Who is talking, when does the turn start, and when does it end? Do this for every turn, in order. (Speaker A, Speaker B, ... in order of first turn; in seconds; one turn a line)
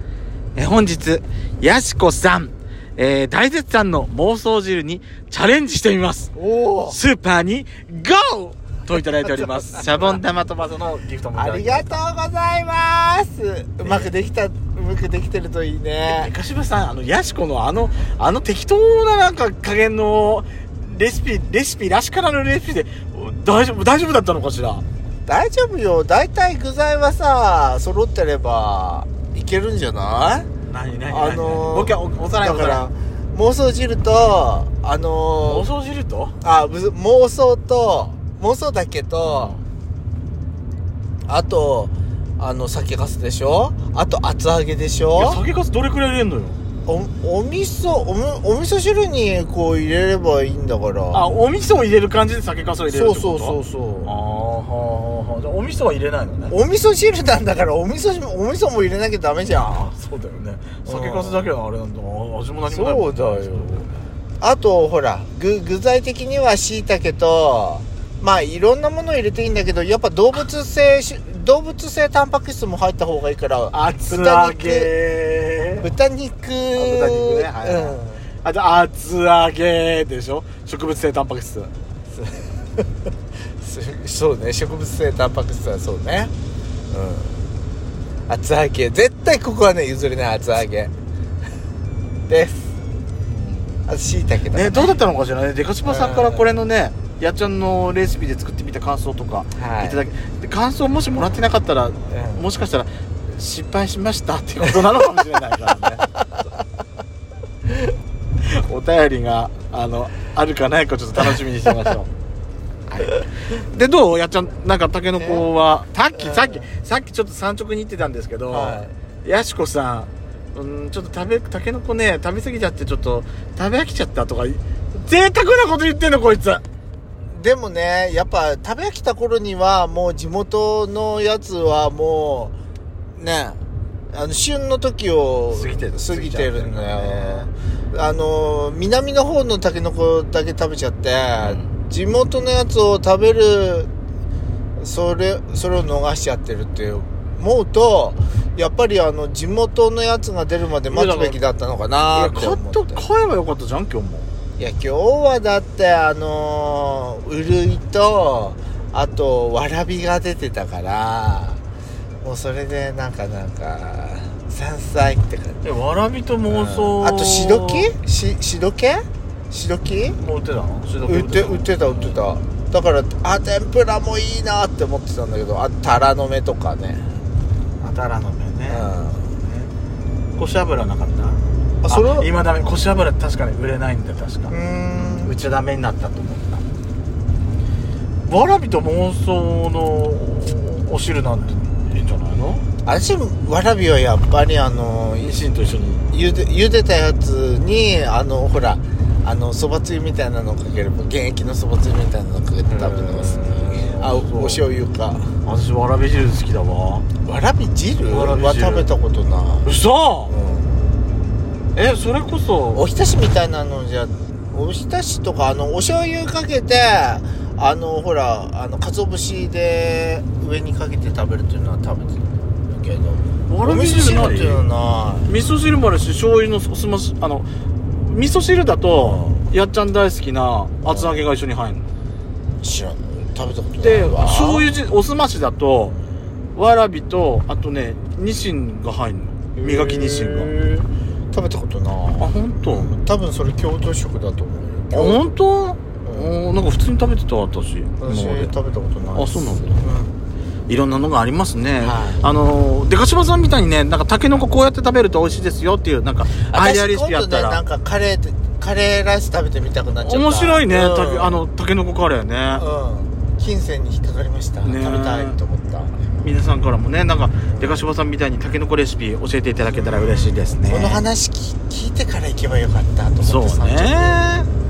Speaker A: 0.6-6.3
Speaker B: 6.3-7.0
Speaker A: 6.9-12.0
Speaker B: 9.7-10.2
Speaker B: 11.3-16.3
Speaker A: 13.8-14.1
Speaker A: 16.1-24.8
Speaker B: 25.2-30.5
Speaker A: 30.7-32.8
Speaker B: 31.1-35.7
Speaker A: 35.4-36.3
Speaker B: 36.4-39.5
Speaker A: 39.2-39.6
Speaker B: 41.3-45.4
Speaker A: 45.1-46.6
Speaker B: 46.9-51.2
Speaker A: 51.1-56.5
Speaker B: 52.9-54.1
Speaker B: 56.5-59.9
Speaker A: 59.7-63.9
Speaker B: 60.9-61.5
Speaker B: 62.7-63.7
Speaker B: 64.4-74.9
Speaker A: 73.7-75.9
Speaker B: 75.8-78.2
Speaker A: 76.7-81.7
Speaker B: 82.1-82.9
Speaker B: 83.6-86.3
Speaker B: 86.9-87.4
Speaker B: 88.3-90.9
Speaker B: 92.3-92.8
Speaker A: 93.3-93.8
Speaker B: 93.9-95.0
Speaker A: 94.5-106.0
Speaker B: 95.8-96.5
Speaker B: 99.5-100.0
Speaker B: 102.1-102.5
Speaker A: 108.4-112.1
Speaker A: 112.9-126.6
Speaker B: 115.1-115.5
Speaker B: 116.1-116.7
Speaker B: 118.5-118.9
Speaker B: 127.3-132.6
Speaker B: 133.2-133.6
Speaker B: 134.1-143.9
Speaker A: 135.5-137.5
Speaker A: 141.4-141.7
Speaker B: 144.8-153.0
Speaker A: 150.9-151.4
Speaker A: 152.1-154.3
Speaker B: 154.6-161.6
Speaker B: 162.2-165.6
Speaker A: 165.6-167.9
Speaker B: 166.5-170.2
Speaker A: 170.2-172.2
Speaker B: 171.1-177.1
Speaker A: 177.8-179.7
Speaker B: 178.7-179.3
Speaker A: 180.4-186.6
Speaker B: 181.8-182.3
Speaker B: 184.5-185.3
Speaker A: 188.2-192.6
Speaker B: 192.8-195.4
Speaker A: 195.2-196.0
Speaker B: 196.1-205.3
Speaker A: 202.7-204.6
Speaker A: 205.4-207.1
Speaker B: 207.2-209.7
Speaker A: 208.1-208.9
Speaker A: 209.6-210.3
Speaker B: 210.2-210.8
Speaker A: 211.7-212.8
Speaker B: 212.7-225.3
Speaker A: 223.5-224.6
Speaker A: 225.2-227.5
Speaker A: 228.0-231.8
Speaker B: 229.0-229.4
Speaker B: 230.8-231.2
Speaker B: 232.6-234.7
Speaker A: 233.8-235.9
Speaker A: 236.5-240.5
Speaker B: 239.6-245.3
Speaker A: 242.2-242.9
Speaker A: 244.9-248.5
Speaker B: 246.0-246.3
Speaker B: 248.0-250.1
Speaker A: 249.1-249.8
Speaker A: 250.7-257.6
Speaker B: 251.8-252.2
Speaker B: 256.4-261.4
Speaker A: 260.0-262.6
Speaker B: 262.6-266.1
Speaker A: 264.6-265.4
Speaker A: 266.2-271.0
Speaker B: 267.5-267.8
Speaker B: 269.7-274.3
Speaker A: 273.2-274.5